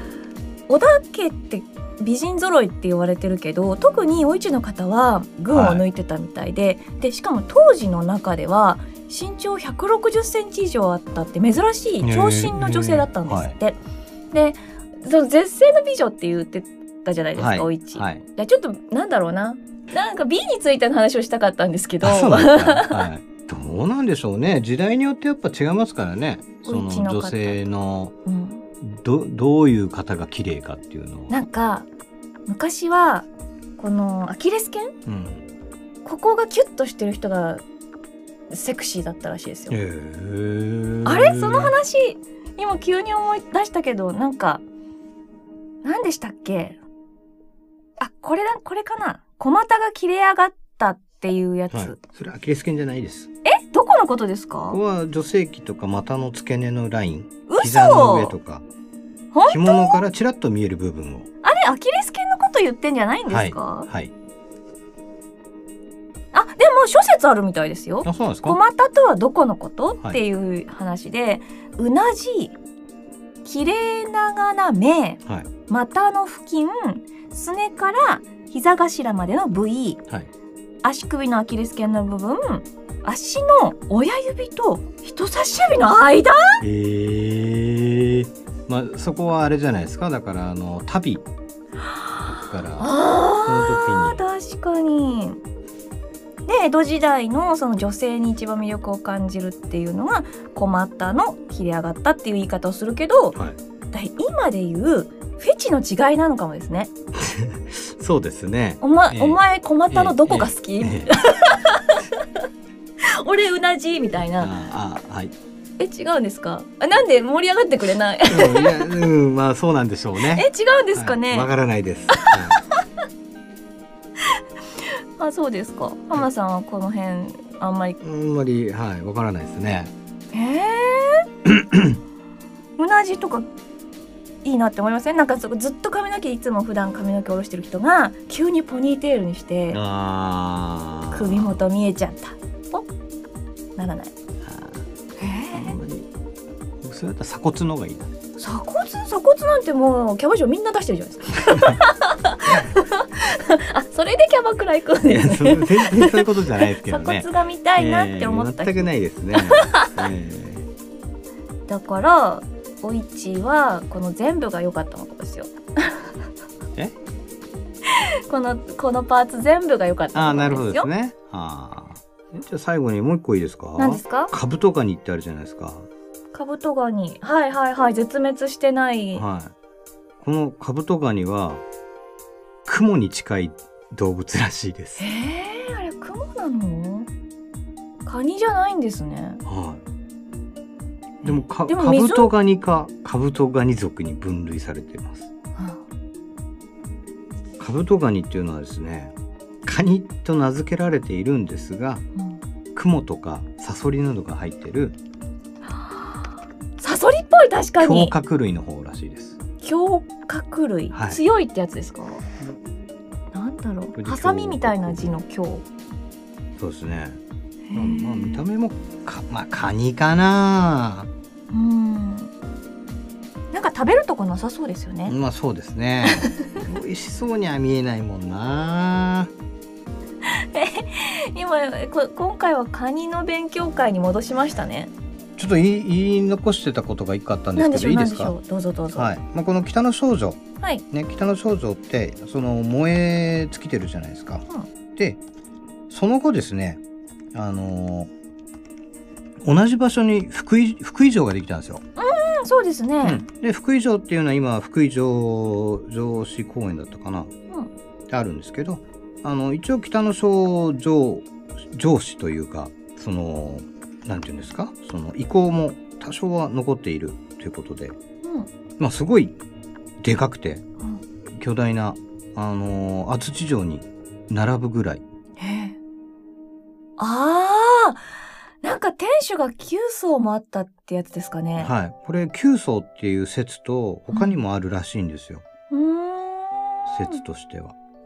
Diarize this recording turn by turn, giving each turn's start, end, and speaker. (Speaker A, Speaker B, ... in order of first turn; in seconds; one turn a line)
Speaker A: 0.7-13.8
Speaker B: 5.5-5.8
Speaker B: 12.0-13.6
Speaker A: 14.3-23.1
Speaker B: 17.4-18.2
Speaker B: 22.0-28.1
Speaker A: 26.7-27.6
Speaker A: 28.3-28.6
Speaker B: 28.8-31.3
Speaker A: 31.3-31.9
Speaker A: 32.5-33.3
Speaker A: 33.8-35.0
Speaker B: 35.1-35.5
Speaker A: 36.0-37.6
Speaker A: 38.5-39.8
Speaker B: 39.7-41.8
Speaker A: 41.0-44.6
Speaker A: 45.8-46.8
Speaker A: 48.0-52.0
Speaker B: 51.7-53.3
Speaker A: 53.4-54.8
Speaker B: 54.7-58.6
Speaker A: 57.5-58.4
Speaker A: 59.3-60.0
Speaker B: 59.5-61.3
Speaker A: 61.4-63.9
Speaker B: 63.3-64.1
Speaker A: 66.3-72.5
Speaker B: 68.0-68.6
Speaker A: 73.5-80.0
Speaker A: 80.8-86.6
Speaker B: 86.6-91.3
Speaker A: 91.9-95.4
Speaker B: 92.2-92.9
Speaker B: 93.5-94.2
Speaker A: 96.5-103.4
Speaker A: 103.9-106.9
Speaker B: 107.2-111.1
Speaker A: 108.8-112.3
Speaker A: 113.0-114.5
Speaker B: 114.4-115.3
Speaker A: 115.8-119.0
Speaker B: 118.3-122.6
Speaker A: 120.2-121.5
Speaker A: 122.1-122.8
Speaker A: 124.2-128.0
Speaker B: 128.0-129.9
Speaker A: 130.3-131.3
Speaker B: 131.4-132.0
Speaker A: 132.8-133.5
Speaker A: 134.4-139.8
Speaker B: 139.7-141.6
Speaker A: 141.1-142.9
Speaker A: 143.8-144.1
Speaker B: 144.4-144.8
Speaker A: 145.2-145.8
Speaker B: 145.5-146.1
Speaker B: 146.8-148.1
Speaker A: 148.4-160.0
Speaker B: 151.5-151.8
Speaker B: 155.1-160.7
Speaker A: 161.7-166.1
Speaker A: 167.8-170.9
Speaker B: 170.1-175.9
Speaker A: 173.8-174.3
Speaker A: 176.3-179.2
Speaker B: 179.2-179.5
Speaker B: 180.2-181.6
Speaker B: 182.7-185.1
Speaker A: 185.0-187.1
Speaker A: 188.1-189.4
Speaker B: 189.5-189.8
Speaker B: 191.2-195.3
Speaker A: 191.2-192.3
Speaker A: 195.6-195.8
Speaker B: 197.6-202.0
Speaker B: 202.7-205.0
Speaker A: 205.7-206.2
Speaker A: 206.8-208.2
Speaker B: 207.8-209.4
Speaker A: 209.6-212.2
Speaker B: 210.9-211.2
Speaker A: 213.3-215.7
Speaker B: 214.0-215.1
Speaker B: 216.6-217.2
Speaker A: 217.7-218.4
Speaker B: 217.7-221.1
Speaker A: 221.5-222.3
Speaker A: 223.5-225.2
Speaker B: 225.1-229.3
Speaker A: 226.1-226.6
Speaker A: 230.2-234.9
Speaker B: 235.4-238.4
Speaker A: 237.6-239.1
Speaker B: 238.9-240.4
Speaker B: 240.9-245.2
Speaker B: 245.9-246.8
Speaker B: 247.3-248.1
Speaker B: 249.4-251.8
Speaker A: 252.0-253.3
Speaker B: 253.0-257.3
Speaker B: 258.1-268.0
Speaker A: 268.2-268.5
Speaker B: 268.8-269.4
Speaker B: 270.0-270.6
Speaker B: 271.4-275.0
Speaker A: 275.4-275.8
Speaker A: 277.0-278.0
Speaker A: 278.6-281.7
Speaker B: 281.6-285.4
Speaker A: 284.1-284.4
Speaker A: 285.7-287.2
Speaker B: 286.9-287.8